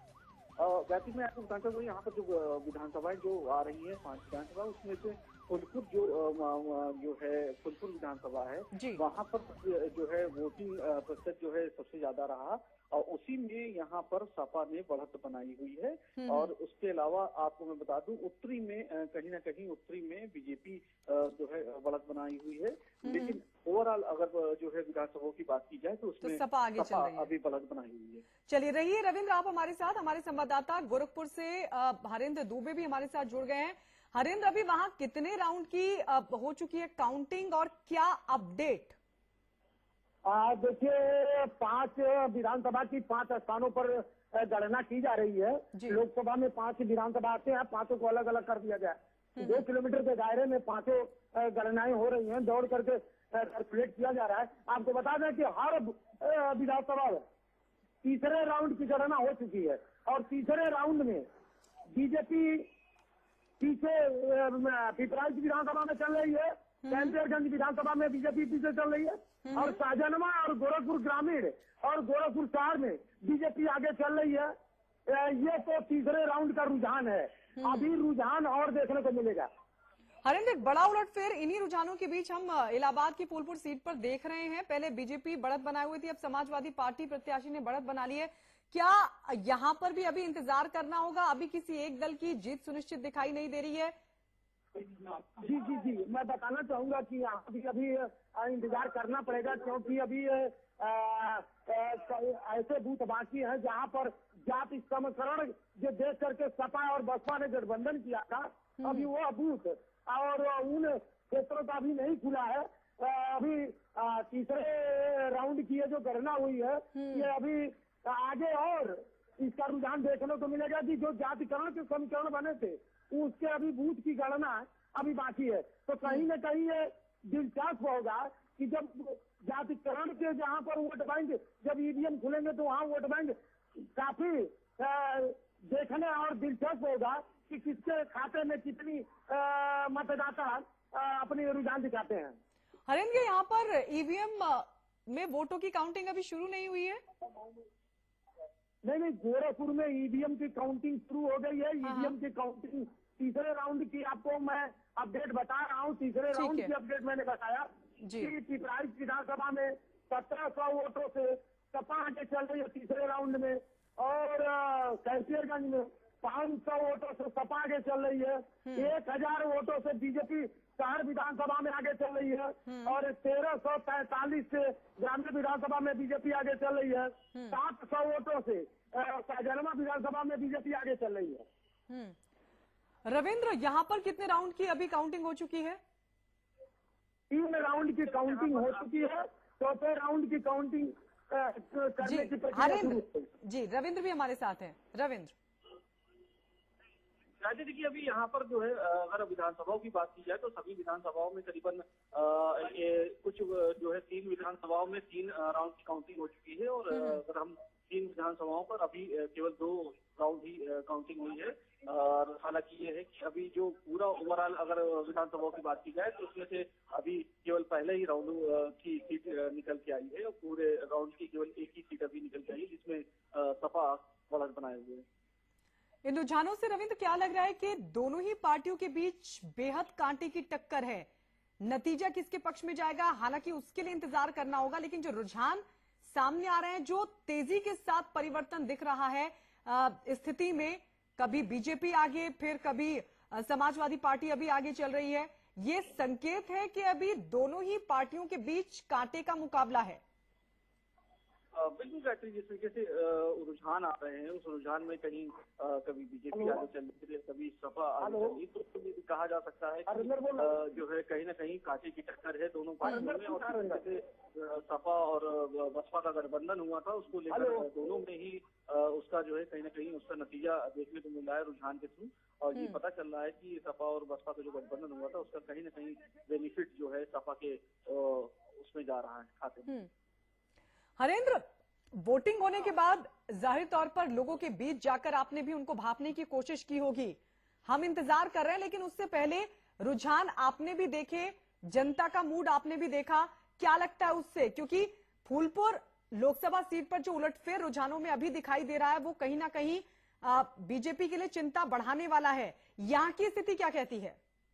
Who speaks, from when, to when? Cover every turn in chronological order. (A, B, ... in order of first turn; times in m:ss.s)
0:00.6-0:28.2 A
0:08.7-0:09.0 B
0:16.2-0:16.5 B
0:23.0-0:23.4 B
0:26.2-0:27.3 B
0:28.5-0:39.0 B
0:40.2-0:57.2 C
0:45.7-0:46.0 B
0:49.4-0:49.6 B
0:58.0-1:01.3 C
1:01.9-1:02.7 C
1:03.6-1:14.5 C
1:06.8-1:07.2 B
1:09.4-1:09.8 B
1:15.1-1:19.5 C
1:17.6-1:17.9 B
1:20.2-1:33.9 B
1:35.1-2:22.4 C
1:48.8-1:49.1 B
1:56.9-1:57.3 B
2:22.9-2:27.0 B
2:28.8-3:01.4 C
2:31.8-2:32.1 B
2:36.3-2:36.7 B
2:38.0-2:38.3 B
2:48.6-2:48.9 B
2:52.6-2:53.0 B
3:01.9-3:02.2 B
3:03.0-3:05.8 B
3:07.3-3:13.3 C
3:08.1-3:09.1 A
3:12.0-3:15.3 B
3:17.4-3:45.0 A
3:26.9-3:27.2 B
3:46.0-3:51.1 B
3:51.6-4:10.0 B
4:11.5-4:39.7 A
4:16.3-4:16.6 C
4:18.0-4:18.4 C
4:19.9-4:20.6 C
4:22.8-4:23.8 C
4:27.3-4:27.7 C
4:32.5-4:32.8 B
4:41.0-5:04.2 B